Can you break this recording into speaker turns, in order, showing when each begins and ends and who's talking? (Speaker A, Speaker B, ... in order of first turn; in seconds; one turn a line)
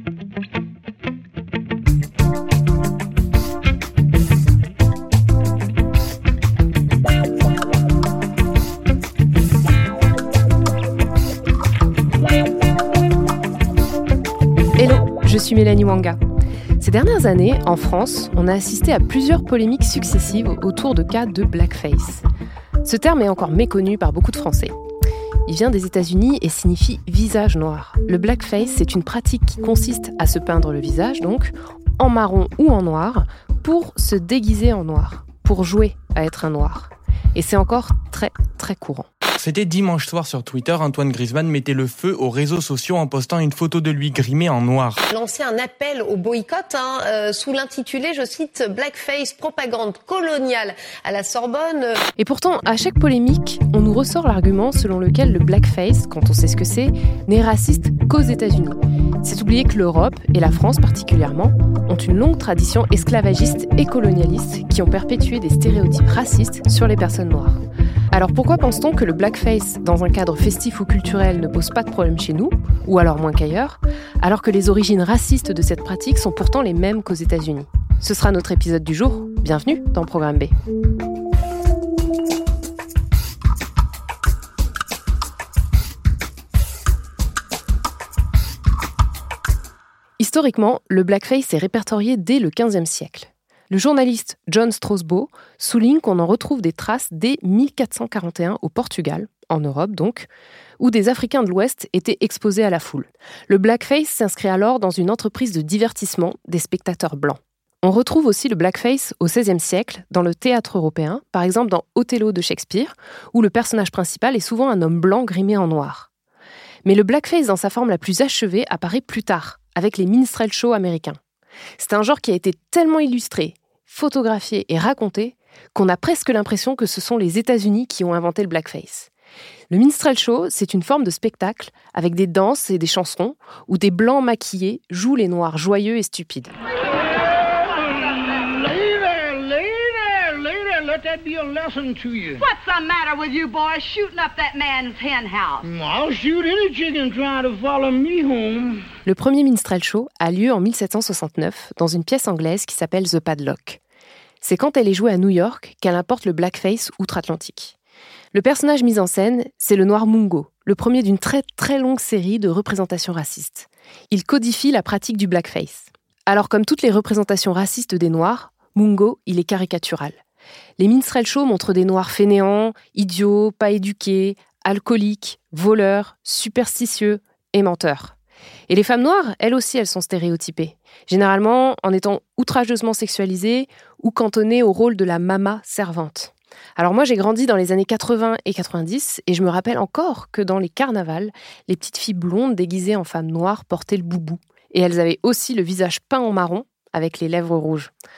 Speaker A: 14.8-16.2
Speaker A: 16.8-22.2
Speaker A: 22.8-24.8
Speaker A: 25.5-39.1
Speaker B: 39.4-45.0
Speaker C: 45.1-52.0
Speaker A: 52.2-67.6
Speaker A: 68.1-80.5
Speaker A: 90.2-100.3
Speaker A: 100.8-116.1
Speaker A: 116.8-121.2
Speaker A: 121.8-129.1
Speaker A: 129.7-136.5
Speaker D: 137.6-142.4
Speaker E: 142.4-145.7
Speaker D: 145.6-148.8
Speaker A: 149.1-153.8
Speaker A: 154.4-157.7
Speaker A: 158.3-170.2
Speaker A: 170.8-178.1
Speaker A: 178.7-197.9